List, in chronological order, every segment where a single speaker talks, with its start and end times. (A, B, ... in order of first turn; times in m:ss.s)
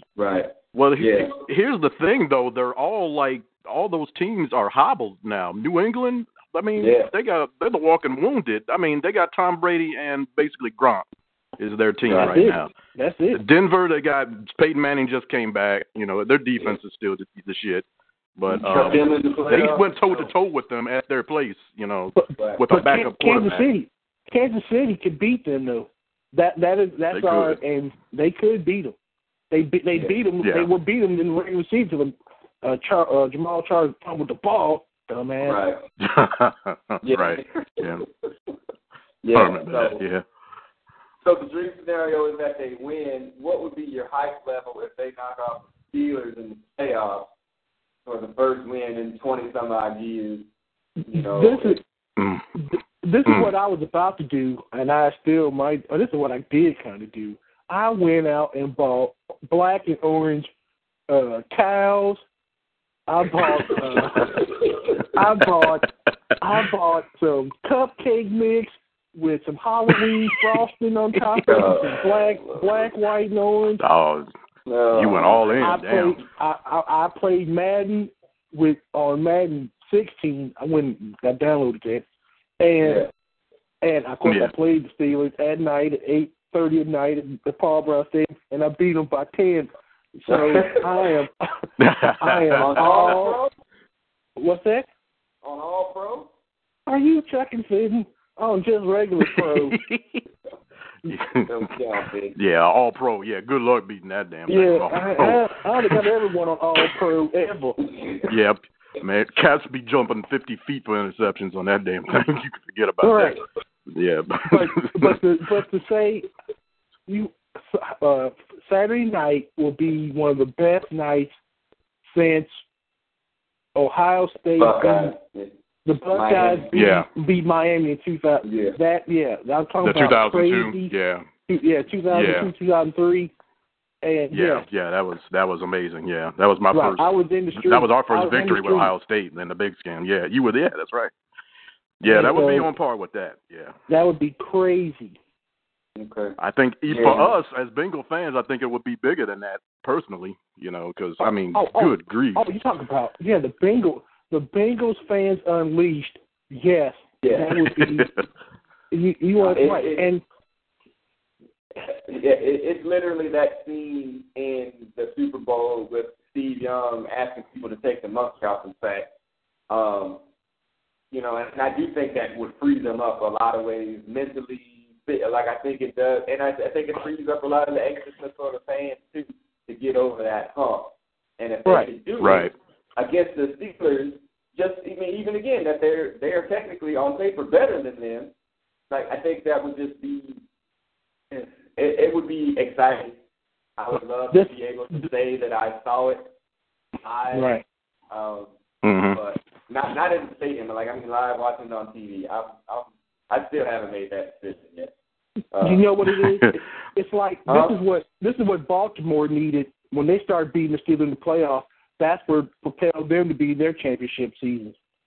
0:00.2-0:01.4 A
0:00.7-0:11.1 B
0:06.8-0:07.1 A
0:11.6-0:12.7 B
0:12.1-0:12.4 A
0:12.1-0:13.4 C
0:13.3-0:17.9 B
0:18.4-0:23.6 B
0:18.5-0:19.0 C
0:18.6-0:20.3 A
0:22.2-0:28.9 C
0:22.4-0:22.6 A
0:27.1-0:27.6 B
0:29.5-0:35.6 C
0:30.4-0:30.7 B
0:35.4-0:35.8 A
0:36.0-0:38.0 B
0:37.0-0:38.0 A
0:39.2-0:40.0 A
0:39.3-0:40.2 B
0:41.2-0:47.3 A
0:48.1-0:50.4 A
0:51.0-0:51.8 A
0:51.1-0:51.8 C
0:52.2-0:52.5 B
0:52.6-1:00.5 C
0:53.3-0:53.5 B
1:01.1-1:02.2 C
1:03.1-1:04.4 C
1:03.7-1:05.0 A
1:05.0-1:05.9 C
1:05.5-1:05.9 B
1:06.4-1:13.8 C
1:09.9-1:10.5 B
1:11.3-1:11.6 B
1:11.5-1:12.9 A
1:13.8-1:14.3 B
1:14.7-1:15.8 A
1:14.9-1:16.2 B
1:15.6-1:22.0 C
1:22.6-1:23.1 C
1:22.8-1:23.1 A
1:23.8-1:31.5 C
1:24.2-1:24.5 B
1:30.3-1:31.0 A
1:31.8-1:33.1 B
1:32.2-1:33.4 C
1:32.6-1:33.5 A
1:34.4-1:34.9 C
1:35.4-1:36.3 A
1:36.9-1:39.8 C
1:39.2-1:40.2 B
1:41.1-1:41.6 B
1:41.4-1:42.4 A
1:42.4-1:46.0 B
1:44.5-1:47.8 C
1:48.0-1:48.2 A
1:48.3-1:55.2 B
1:53.0-1:53.4 C
1:54.5-1:56.3 C
1:57.1-2:01.3 C
2:02.1-2:02.6 C
2:03.8-2:05.1 C
2:04.6-2:05.6 A
2:05.9-2:10.9 C
2:06.1-2:06.7 A
2:06.7-2:07.1 B
2:08.4-2:08.8 A
2:09.8-2:11.3 B
2:11.5-2:13.3 C
2:12.1-2:12.5 B
2:14.0-2:14.6 C
2:14.3-2:21.1 B
2:16.7-2:18.9 C
2:22.0-2:23.8 B
2:22.0-2:22.7 C
2:23.9-2:25.2 C
2:26.0-2:26.4 A
2:26.4-2:32.4 B
2:26.9-2:27.3 A
2:31.5-2:38.1 C
2:37.2-2:37.6 A
2:37.6-2:38.2 B
2:38.9-2:40.2 C
2:39.4-2:40.1 A
2:41.9-2:49.1 A
2:49.7-2:50.2 A
2:51.1-3:08.3 A
3:02.2-3:02.5 B
3:08.9-3:10.4 A
3:11.3-3:13.2 A
3:13.8-3:16.3 A
3:17.0-3:17.5 A
3:17.3-3:17.6 C
3:18.1-3:18.5 A
3:18.8-3:19.2 B
3:19.1-3:24.9 A
3:25.5-3:25.8 A
3:25.6-3:34.8 C
3:26.1-3:26.5 B
3:27.5-3:27.8 A